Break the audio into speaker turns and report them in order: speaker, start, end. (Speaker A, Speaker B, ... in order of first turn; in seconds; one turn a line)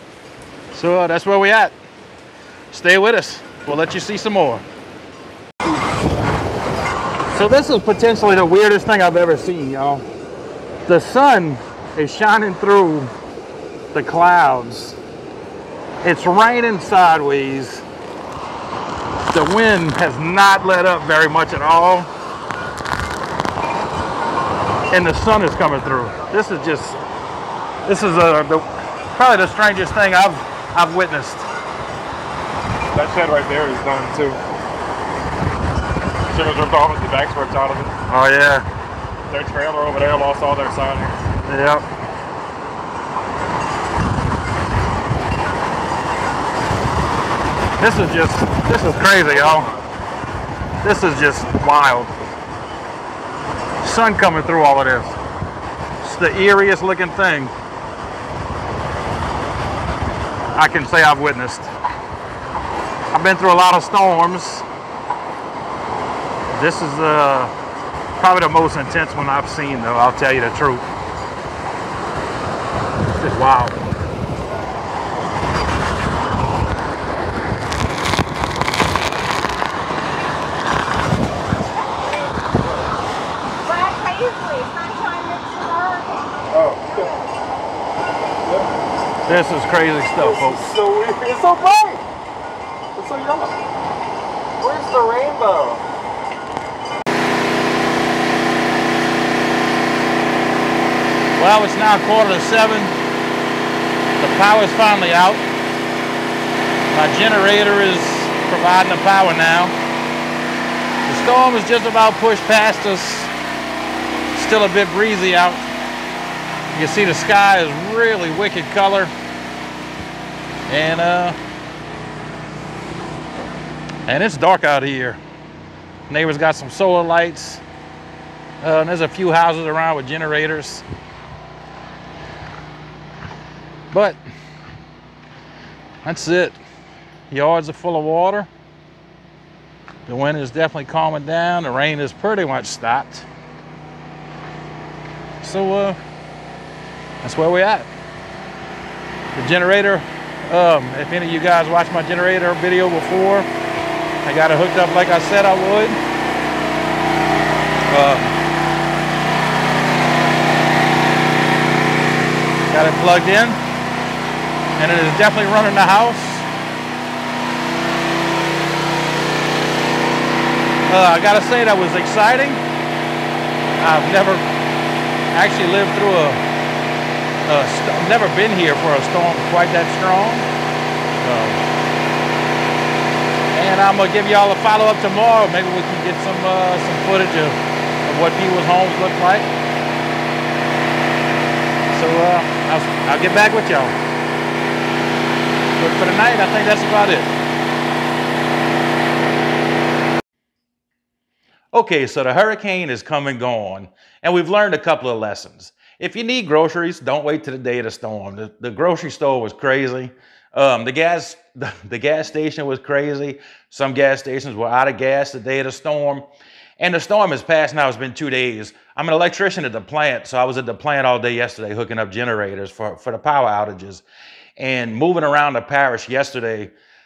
Speaker A: 0.7-1.7
Speaker A: 2.7-4.6
Speaker A: 7.3-10.0
Speaker A: 10.9-13.1
Speaker A: 13.9-15.0
Speaker A: 16.0-17.8
Speaker A: 19.3-22.1
Speaker A: 24.9-27.0
Speaker A: 27.8-31.5
Speaker B: 32.9-34.4
Speaker B: 36.3-37.9
Speaker A: 38.1-38.7
Speaker B: 39.3-41.2
Speaker A: 41.5-41.9
Speaker A: 47.8-49.7
Speaker B: 48.9-49.9
Speaker A: 50.8-52.1
Speaker A: 53.8-55.2
Speaker A: 56.0-57.5
Speaker A: 60.5-61.7
Speaker A: 63.1-64.6
Speaker A: 66.5-67.5
Speaker A: 68.2-70.9
Speaker A: 73.1-73.8
Speaker C: 83.6-87.4
Speaker B: 86.5-87.1
Speaker A: 89.2-90.7
Speaker B: 90.2-92.0
Speaker B: 92.9-93.6
Speaker B: 94.6-95.8
Speaker A: 101.3-102.9
Speaker A: 104.2-105.4
Speaker A: 106.9-109.7
Speaker A: 111.0-113.3
Speaker A: 114.3-115.7
Speaker A: 116.7-119.1
Speaker A: 120.7-121.4
Speaker A: 124.0-125.2
Speaker A: 126.1-127.6
Speaker A: 128.6-130.8
Speaker A: 133.9-134.2
Speaker A: 136.0-136.6
Speaker A: 137.3-138.5
Speaker A: 140.1-143.3
Speaker A: 145.4-146.0
Speaker A: 147.2-147.9
Speaker A: 149.3-153.5
Speaker A: 154.2-156.0
Speaker A: 157.9-158.3
Speaker A: 162.7-163.6
Speaker A: 164.8-166.5
Speaker A: 170.9-172.6
Speaker A: 173.8-174.4
Speaker A: 175.3-176.4
Speaker A: 177.5-180.5
Speaker A: 181.2-181.6
Speaker A: 183.5-189.5
Speaker A: 191.9-193.9
Speaker A: 195.8-197.3
Speaker A: 201.7-216.2
Speaker A: 216.8-224.0
Speaker A: 224.6-226.7